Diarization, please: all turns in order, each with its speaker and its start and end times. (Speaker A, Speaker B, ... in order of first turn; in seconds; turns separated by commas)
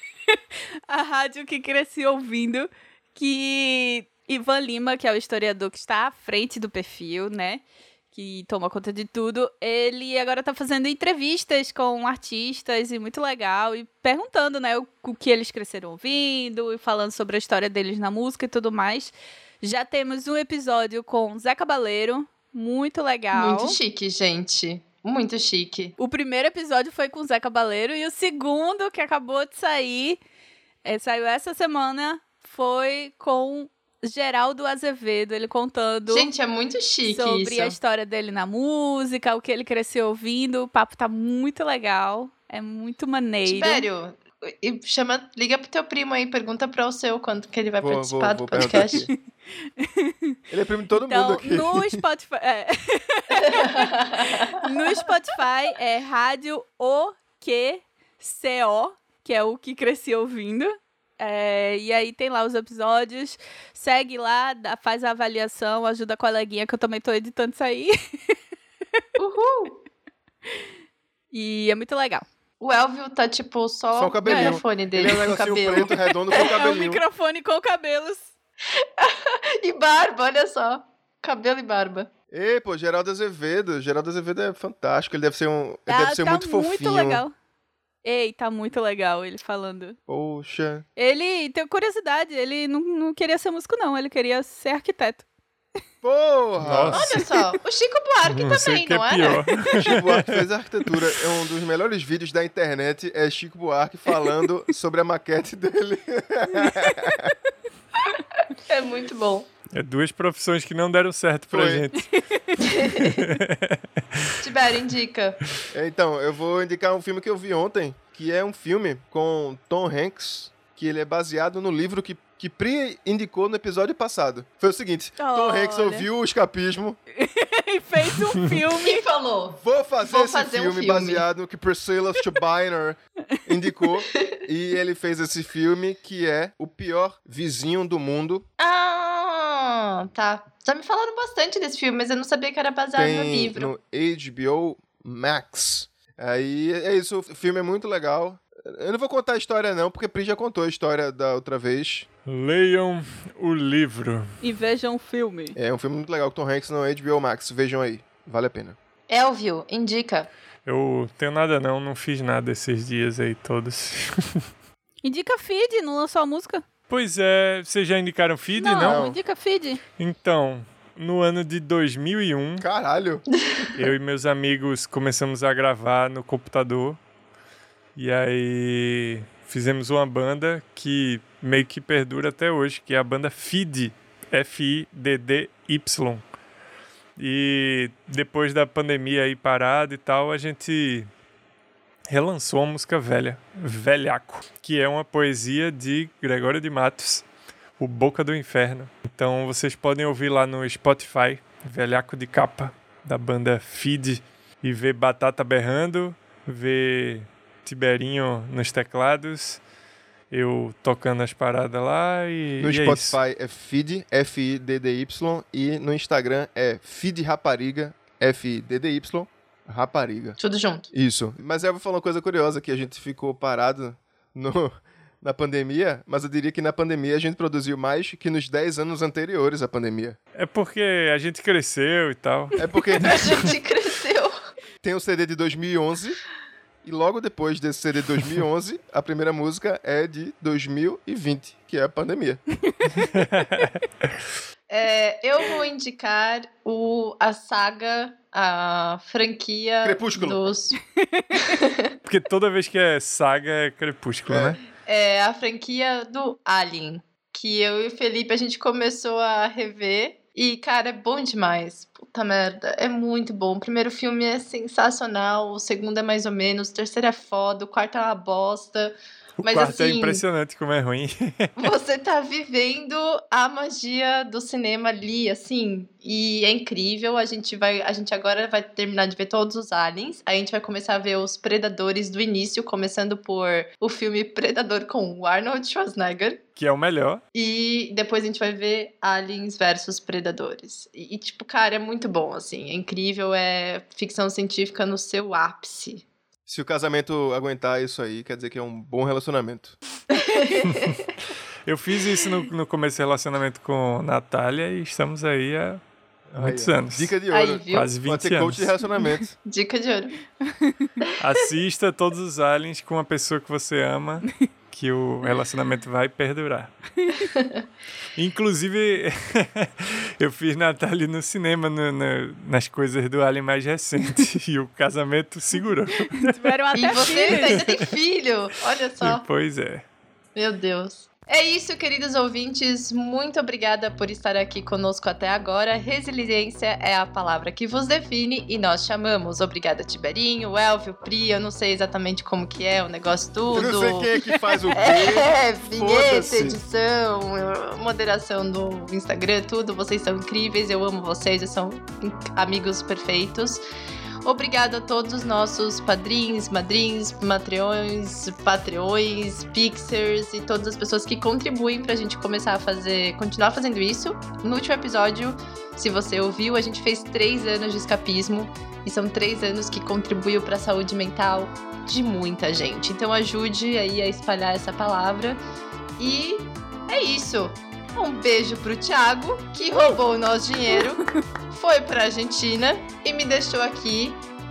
Speaker A: 0.3-23.8, Speaker B: 23.3-25.9, Speaker A: 26.0-30.2, Speaker A: 30.8-36.3, Speaker B: 36.1-37.8, Speaker A: 37.0-43.9, Speaker B: 43.5-49.1, Speaker C: 47.8-49.1, Speaker A: 48.6-49.1, Speaker A: 49.8-50.4, Speaker C: 50.5-52.0, Speaker A: 51.0-68.3, Speaker B: 53.3-54.7, Speaker B: 69.2-69.8, Speaker A: 71.3-72.2, Speaker B: 72.6-76.5, Speaker C: 73.9-77.0, Speaker A: 74.2-78.3, Speaker B: 78.8-82.1, Speaker C: 82.3-87.2, Speaker A: 85.9-87.3, Speaker A: 88.0-90.0, Speaker C: 90.1-90.8, Speaker A: 91.0-95.2, Speaker C: 96.0-97.0, Speaker D: 96.6-97.2, Speaker B: 96.9-99.6, Speaker D: 98.3-100.4, Speaker C: 99.7-107.3, Speaker B: 108.7-109.5, Speaker D: 109.7-112.1, Speaker C: 111.5-111.8, Speaker B: 112.6-113.3, Speaker D: 113.0-114.3, Speaker B: 114.4-115.4, Speaker C: 115.7-127.0, Speaker A: 125.2-126.1, Speaker A: 127.1-129.1, Speaker B: 128.8-131.2, Speaker C: 129.6-138.4, Speaker B: 138.6-143.7, Speaker C: 142.9-152.1, Speaker D: 152.2-154.3, Speaker A: 154.4-155.6, Speaker C: 155.6-158.8, Speaker B: 159.1-160.3, Speaker D: 160.7-164.4, Speaker A: 165.0-166.6, Speaker D: 166.9-169.0, Speaker A: 168.6-169.8, Speaker C: 168.8-169.2, Speaker D: 170.0-172.7, Speaker C: 172.6-173.2, Speaker B: 173.5-173.7, Speaker D: 173.7-177.0, Speaker D: 177.9-186.2, Speaker D: 187.2-191.1, Speaker D: 192.1-197.2, Speaker D: 197.8-209.6, Speaker D: 210.3-213.2, Speaker C: 212.6-220.4, Speaker B: 220.4-220.9, Speaker C: 220.9-230.2, Speaker D: 230.4-232.5, Speaker C: 232.6-233.5, Speaker B: 233.0-234.3, Speaker C: 234.8-236.2, Speaker C: 236.8-242.4, Speaker D: 242.9-243.7, Speaker B: 244.7-250.8, Speaker C: 249.8-250.4, Speaker A: 251.0-251.4, Speaker B: 251.3-251.9, Speaker D: 252.0-254.6, Speaker C: 254.3-254.6, Speaker B: 254.8-270.2, Speaker D: 269.4-271.5, Speaker B: 271.6-286.4, Speaker D: 286.6-287.2, Speaker B: 287.3-296.0, Speaker C: 296.4-299.8, Speaker B: 300.1-301.1, Speaker D: 301.6-305.8, Speaker C: 306.3-309.3, Speaker D: 306.4-307.1, Speaker B: 307.3-307.9, Speaker D: 307.7-308.8, Speaker B: 309.4-310.1, Speaker A: 310.5-310.9, Speaker D: 311.2-316.7, Speaker B: 317.2-317.6, Speaker D: 318.1-326.4, Speaker A: 326.2-327.6, Speaker B: 326.7-329.2, Speaker D: 327.1-327.8, Speaker D: 329.0-329.9, Speaker B: 330.4-353.6, Speaker C: 343.5-346.6, Speaker B: 354.2-375.4, Speaker B: 376.0-384.2, Speaker A: 380.7-381.0